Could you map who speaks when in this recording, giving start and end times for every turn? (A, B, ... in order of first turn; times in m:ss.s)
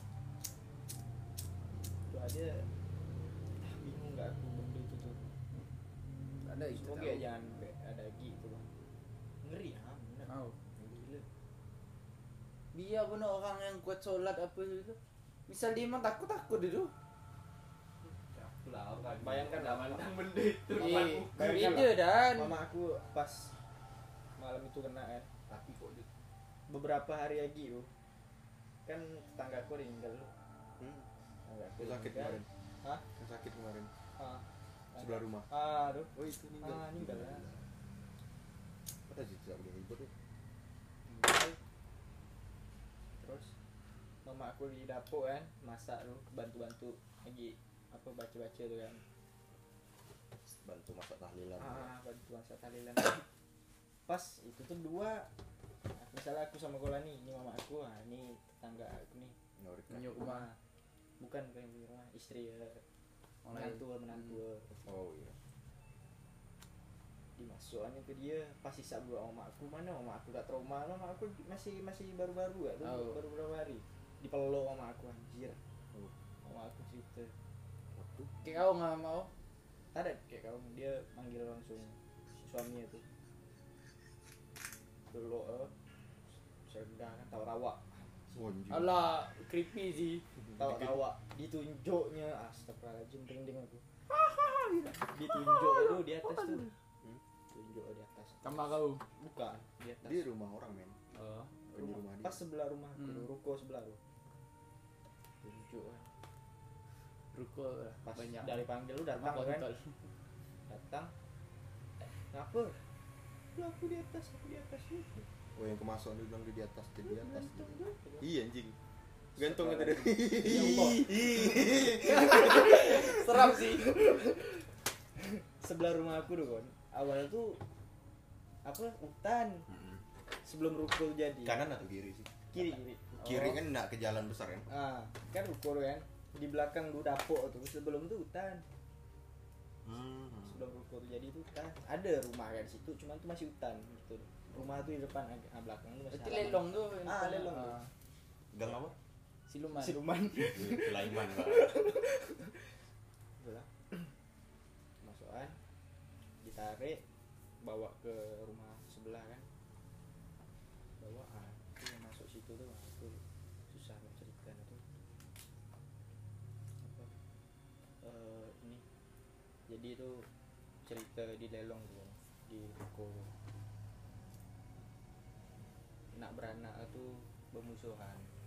0:02.1-0:02.7 A
0:03.6-0:05.2 A
0:06.4-0:07.3 B
0:06.7-0:08.7 A
0:09.4-0:10.3 A
0:10.3-0:10.6 B
0:10.9-0:11.2 A
0:12.7-0:16.9 B
0:18.0-0:21.8 C
0:19.2-0:20.1 A
0:20.8-0:23.5 A
0:20.8-0:22.6 B
0:24.4-0:25.3 A
0:25.5-0:26.1 C
0:26.7-0:27.9 A
0:28.9-0:30.3 A
0:30.8-0:31.1 D
0:31.4-0:33.0 A
0:31.8-0:32.5 D
0:33.2-0:33.9 D
0:34.2-0:37.4 A
0:35.0-0:35.5 D
0:36.1-0:37.7 D
0:39.1-0:40.1 D
0:41.1-0:41.6 A
0:43.2-0:43.5 A
0:44.2-0:49.0 A
0:50.5-0:51.9 D
0:51.6-0:53.2 A
0:54.1-0:55.3 A
0:56.0-0:59.4 A
0:59.6-1:00.2 D
0:59.9-1:00.4 B
1:00.2-1:00.6 A
1:01.2-1:02.8 A
1:03.4-1:03.8 B
1:03.5-1:04.9 A
1:04.8-1:05.4 D
1:07.4-1:15.6 A
1:12.8-1:13.2 B
1:16.4-1:17.4 A
1:17.9-1:18.3 D
1:18.4-1:19.3 B
1:19.9-1:23.0 A
1:25.1-1:25.7 A
1:26.6-1:28.5 A
1:28.4-1:29.0 D
1:28.7-1:30.2 B
1:30.4-1:31.0 D
1:30.6-1:33.8 A
1:34.1-1:36.7 B
1:35.1-1:36.7 A
1:37.5-1:38.6 A
1:38.4-1:39.0 B
1:39.2-1:40.3 A
1:40.0-1:41.0 D
1:41.1-1:41.5 B
1:41.7-1:44.0 A
1:41.7-1:42.4 D
1:43.0-1:43.3 B
1:45.4-1:46.1 A
1:47.3-1:50.0 B
1:48.0-1:49.7 A
1:50.7-1:51.1 A
1:52.3-1:52.8 A
1:53.6-1:55.3 A
1:55.6-1:58.8 D
1:57.0-1:58.3 A
1:59.4-2:03.0 D
1:59.4-2:04.5 A
2:00.5-2:01.0 B
2:02.1-2:03.9 B
2:05.2-2:07.6 A
2:08.6-2:09.7 A
2:09.7-2:10.0 D
2:10.4-2:11.7 A
2:11.4-2:14.7 D
2:12.5-2:13.2 A
2:13.2-2:13.6 B
2:14.7-2:18.6 A
2:19.8-2:20.6 D
2:20.4-2:27.8 A
2:26.1-2:27.9 B
2:28.5-2:29.0 D
2:29.5-2:30.0 B
2:29.7-2:32.5 A
2:30.4-2:31.8 D
2:33.4-2:34.1 A
2:35.0-2:35.6 A
2:36.4-2:37.0 A
2:37.6-2:39.5 A
2:41.0-2:44.8 A
2:46.8-2:47.1 A
2:48.0-2:48.8 A
2:49.7-2:50.3 A
2:50.8-2:53.3 A
2:56.1-2:58.3 A